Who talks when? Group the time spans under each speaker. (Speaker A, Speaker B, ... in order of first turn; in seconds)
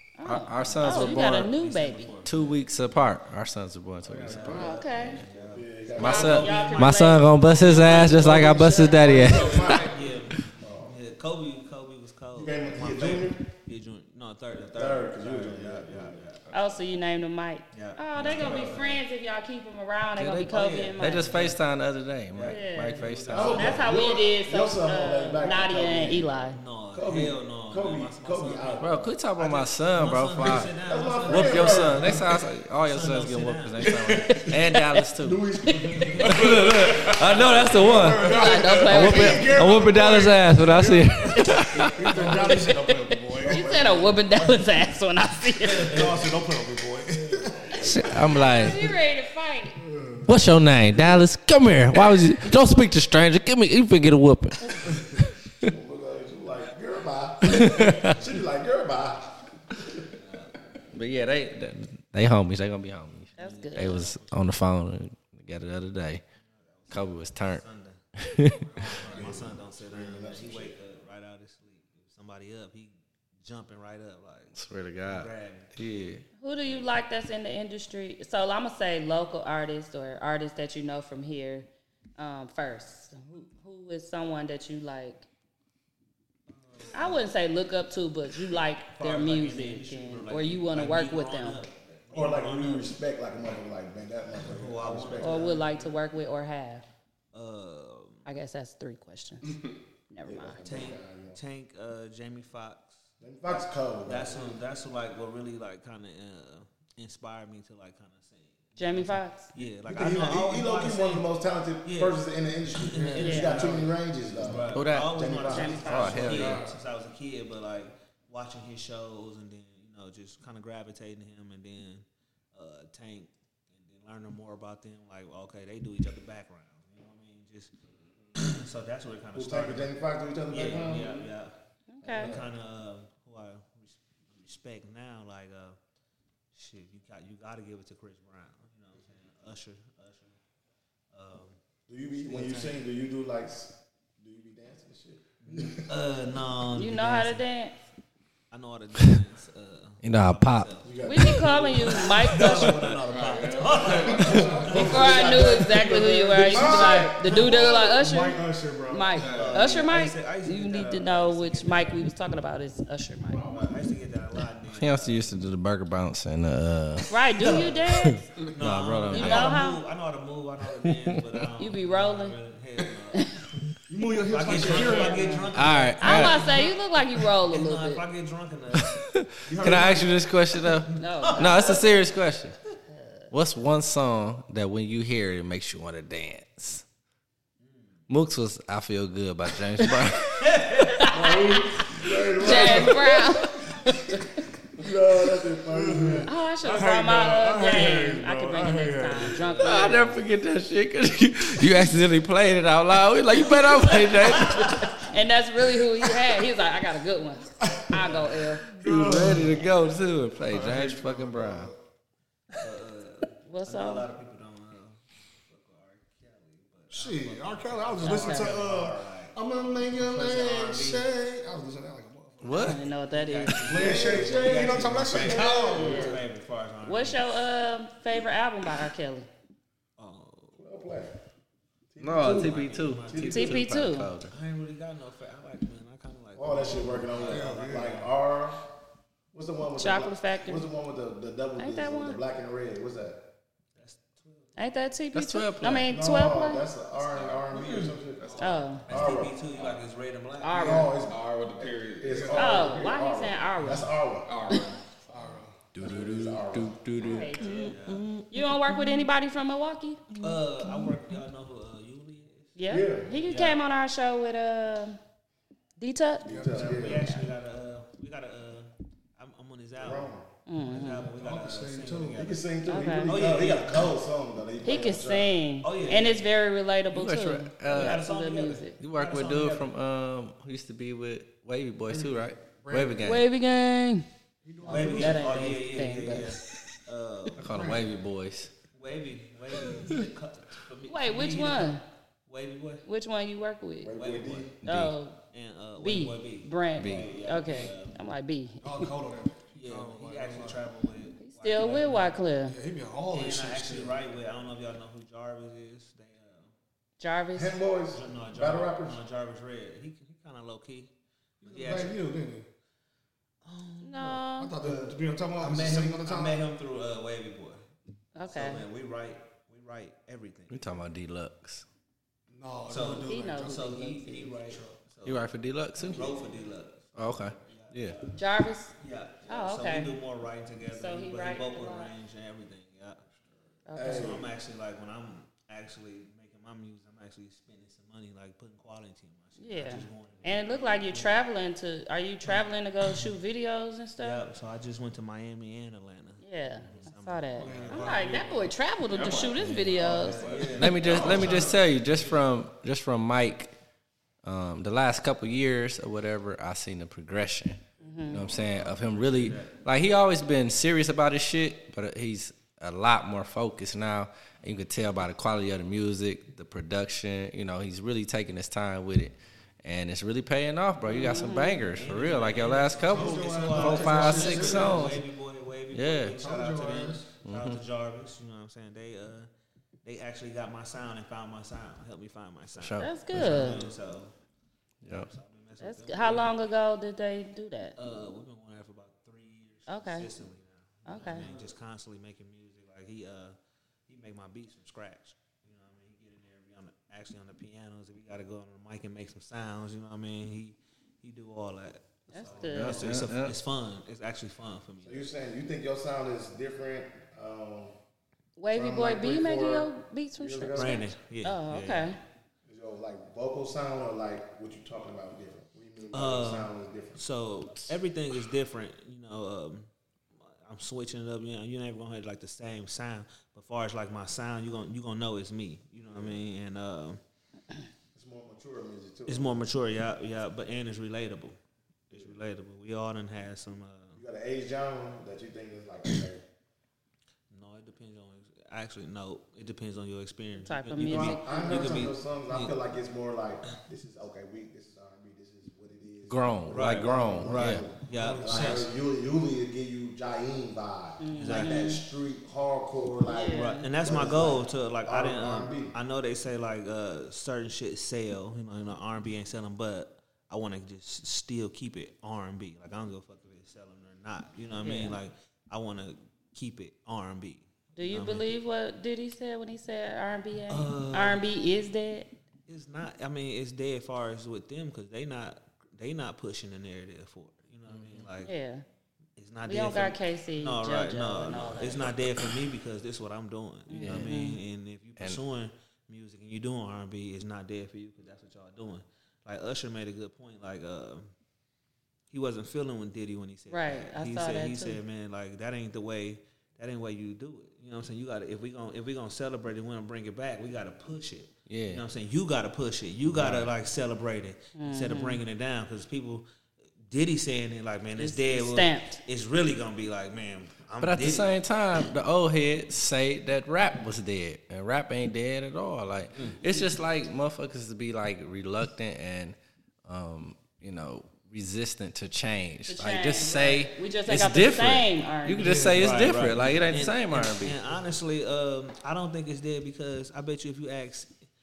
Speaker A: 0.2-2.1, 4.5-5.2, 6.0-9.2, 16.5-21.5, 22.4-26.6, 33.9-35.0, 35.7-36.1, 38.2-39.6, 42.1-46.1, 48.3-49.8, 63.4-64.0, 76.4-81.7, 82.2-85.2, 86.9-91.6, 95.2-96.8, 98.2-99.6, 100.1-100.7, 108.8-109.5, 113.2-113.6, 115.5-116.3, 131.9-132.3, 146.8-147.7, 151.0-152.8, 154.7-163.4, 167.1-168.3, 169.1-169.8, 171.6-172.4, 174.5-178.0, 181.0-181.8, 190.8-191.8, 192.4-194.2, 196.3-200.2, 205.1-208.6, 213.5-214.1, 218.0-218.6, 222.5-223.6, 225.8-226.1, 226.8-229.3, 233.3-234.1, 239.8-240.6, 241.6-242.2, 244.6-246.6, 248.4-248.8, 250.4-250.9, 252.3-253.9, 257.0-257.7, 258.3-260.0, 262.6-265.0, 265.8-267.2, 270.5-271.1, 272.7-273.2, 274.6-278.8, 283.0-284.1, 284.6-286.4, 290.9-291.8, 292.9-293.9, 294.7-295.2, 295.8-298.9, 301.2-302.6, 307.0-307.6, 313.8-314.5, 318.1-318.6, 323.1-323.9, 328.1-328.7, 329.3-329.9, 330.7-331.9, 333.7-334.1, 339.4-344.2, 346.2-350.2, 357.8-358.3, 370.9-371.7, 382.8-383.6, 385.6-387.8, 389.7-390.1, 390.9-391.3, 402.1-402.9, 408.4-412.0, 440.4-441.8, 451.0-451.8, 453.1-453.7, 464.6-465.0, 467.8-472.1, 478.2-478.6, 479.5-481.9, 483.7-484.4, 493.5-494.8, 504.6-505.2, 508.0-509.0, 522.7-525.6
Speaker B: 0.2-1.6, 2.2-4.7, 5.9-9.9, 20.2-23.8, 28.8-30.7, 31.3-35.4, 36.2-42.4, 47.8-48.8, 50.2-55.7, 57.5-58.2, 60.9-66.2, 66.9-67.6, 68.2-68.7, 74.6-76.2, 114.7-115.2, 115.8-116.6, 150.0-150.7, 152.4-152.8, 164.7-169.6, 170.8-171.2, 175.5-176.6, 178.7-182.6, 183.3-186.8, 188.1-190.5, 199.6-205.1, 208.8-211.7, 222.4-222.8, 232.0-234.3, 245.1-245.9, 255.7-258.8, 276.9-278.1, 278.8-283.2, 287.4-288.5, 289.8-290.0, 294.6-295.0, 296.8-297.2, 320.5-321.6, 325.1-326.1, 326.9-328.0, 349.5-349.8, 350.5-353.5, 354.2-375.0, 375.7-376.1, 377.2-377.6, 382.6-383.5, 384.8-385.1, 402.5-403.4, 446.1-447.7, 483.8-484.2, 501.5-501.8, 503.1-503.5, 510.8-519.4, 519.9-527.6
Speaker C: 0.6-2.6, 4.2-7.0, 7.7-8.2, 9.7-16.6, 17.7-19.0, 20.5-21.6, 22.3-23.9, 26.5-28.9, 29.4-32.2, 32.8-34.0, 36.1-36.5, 60.2-60.6, 63.4-64.5, 66.4-68.0, 68.7-75.7, 86.5-87.3, 89.0-92.9, 94.5-95.9, 97.3-98.2, 100.7-103.0, 104.0-111.3, 111.8-112.2, 112.7-129.9, 130.5-131.5, 132.1-135.8, 136.5-140.4, 141.1-141.6, 142.2-142.8, 145.4-147.4, 148.5-150.9, 152.3-155.2, 159.2-162.0, 163.4-165.3, 167.4-167.8, 168.5-173.6, 174.3-176.7, 177.5-179.0, 180.9-182.0, 187.6-187.9, 190.4-191.2, 199.3-200.0, 212.6-219.3, 219.9-221.1, 223.1-227.3, 230.0-230.6, 232.2-233.6, 234.3-238.1, 243.8-244.8, 247.3-248.0, 248.8-250.8, 257.4-258.1, 260.2-262.6, 263.3-263.6, 266.7-270.1, 270.6-272.4, 273.1-273.9, 275.6-276.2, 277.7-279.7, 284.6-287.5, 288.7-292.8, 293.9-294.6, 295.3-298.0, 299.6-302.2, 303.1-306.5, 307.9-310.9, 311.4-312.0, 313.4-314.2, 315.4-317.6, 318.2-320.8, 322.7-325.2, 325.8-328.1, 328.8-333.1, 333.8-341.2, 342.2-343.0, 344.0-348.3, 349.8-352.2, 358.3-359.6, 371.7-379.3, 379.8-384.1, 384.9-386.3, 387.8-393.4, 393.9-405.1, 410.6-412.0, 415.9-419.7, 420.2-427.0, 429.1-431.4, 431.9-434.0, 437.3-442.6, 446.5-448.6, 451.1-451.8, 453.3-468.3, 470.5-471.2, 472.5-478.3, 479.2-491.1, 492.1-506.2, 506.9-511.3, 525.6-531.1
Speaker D: 4.2-5.5, 37.8-43.9, 45.8-48.6, 49.9-50.4, 68.8-69.3, 113.0-113.9, 114.4-114.8, 116.3-116.8, 153.7-159.2, 163.3-163.6, 173.9-175.4, 179.5-180.2, 191.2-193.2, 195.7-199.6, 207.7-209.7, 210.4-211.7, 216.9-222.8, 223.6-226.2, 237.2-238.0, 252.1-252.7, 255.1-255.6, 266.3-267.0, 270.8-272.2, 281.9-283.1, 284.4-285.6, 287.5-287.9, 298.6-300.6, 302.5-303.9, 311.4-312.4, 314.4-316.5, 322.3-324.8, 325.9-326.3, 347.4-348.5, 372.9-375.0, 376.2-377.1, 447.9-448.7, 525.4-526.0
Speaker E: 4.3-6.8, 7.9-9.9, 10.5-11.0, 12.3-13.4, 14.7-16.2, 23.3-26.4, 26.9-29.1, 30.8-32.3, 35.2-36.4, 42.2-42.6, 43.4-44.2, 47.1-48.5, 55.6-60.0, 69.0-70.8, 92.1-95.6, 100.3-101.4, 103.2-104.4, 109.9-116.1, 129.3-131.2, 132.0-132.5, 141.9-145.9, 150.8-152.1, 153.9-157.1, 191.2-193.2, 194.8-196.3, 223.7-226.2, 230.6-231.1, 231.9-233.6, 236.4-238.6, 239.3-243.2, 245.9-249.4, 250.5-254.3, 255.8-256.8, 262.7-263.1, 266.2-267.1, 269.8-270.3, 272.2-275.3, 293.8-294.6, 307.4-309.0, 333.8-334.3, 404.8-407.7, 408.5-410.8, 412.5-417.0, 425.9-426.2, 427.9-429.3, 434.0-436.2, 440.9-455.7
Speaker F: 9.2-10.0, 36.3-38.1, 153.0-154.6, 159.2-159.7, 248.2-249.8, 251.0-252.6, 254.3-254.8, 348.9-351.7